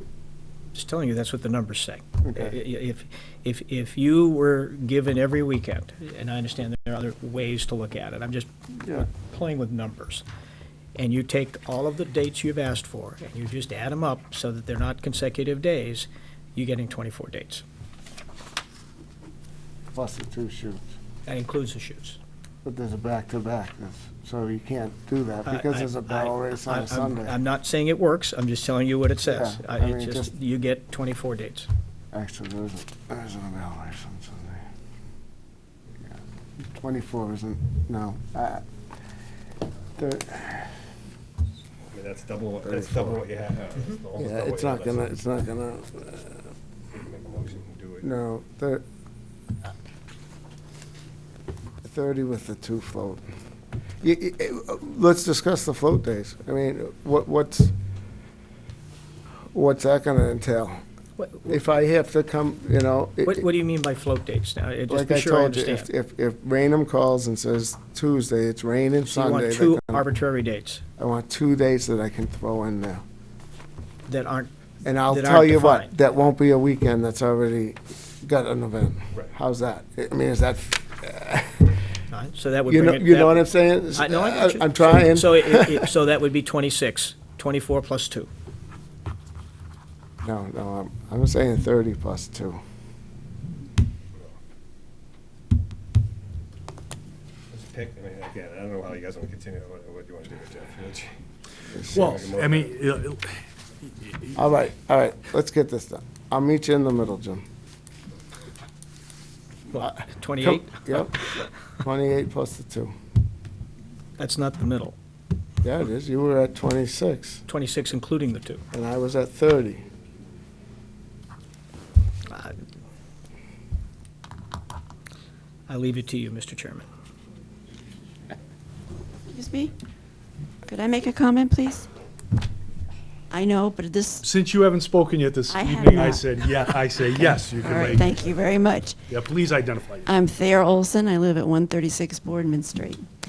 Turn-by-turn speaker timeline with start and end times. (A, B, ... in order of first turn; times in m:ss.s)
0:00.7-0:10.2 A
0:02.2-0:02.6 B
0:11.0-0:17.6 A
0:19.9-0:20.8 B
0:21.3-0:22.2 A
0:22.6-0:27.4 B
0:25.5-0:31.7 A
0:29.3-0:30.3 B
0:32.1-0:34.6 B
0:36.8-0:38.6 B
0:40.0-0:40.7 B
0:41.9-0:45.0 C
0:42.6-0:43.2 B
0:44.2-0:46.4 B
0:46.9-0:48.1 C
0:48.0-0:48.8 B
0:51.8-0:53.2 B
0:54.0-0:57.7 B
0:59.5-1:00.8 B
1:01.2-1:01.5 A
1:01.4-1:03.5 B
1:03.2-1:05.9 A
1:04.9-1:10.0 B
1:09.1-1:10.8 A
1:11.0-1:13.0 B
1:14.1-1:15.9 A
1:14.8-1:21.8 B
1:22.1-1:28.3 A
1:22.7-1:25.9 B
1:30.2-1:32.6 B
1:37.5-1:41.2 C
1:41.7-1:42.1 B
1:41.8-1:44.4 D
1:41.9-1:42.8 C
1:44.4-1:47.4 B
1:49.7-1:51.4 A
1:49.8-1:52.9 B
1:54.2-1:55.0 A
1:55.6-1:57.4 B
1:57.5-1:58.6 A
1:58.7-1:59.8 B
2:02.3-2:02.5 A
2:05.7-2:06.9 A
2:09.3-2:09.7 E
2:10.7-2:11.9 E
2:13.3-2:14.2 E
2:14.2-2:18.4 D
2:15.5-2:16.6 E
2:17.2-2:19.0 E
2:19.1-2:20.1 D
2:20.1-2:23.1 E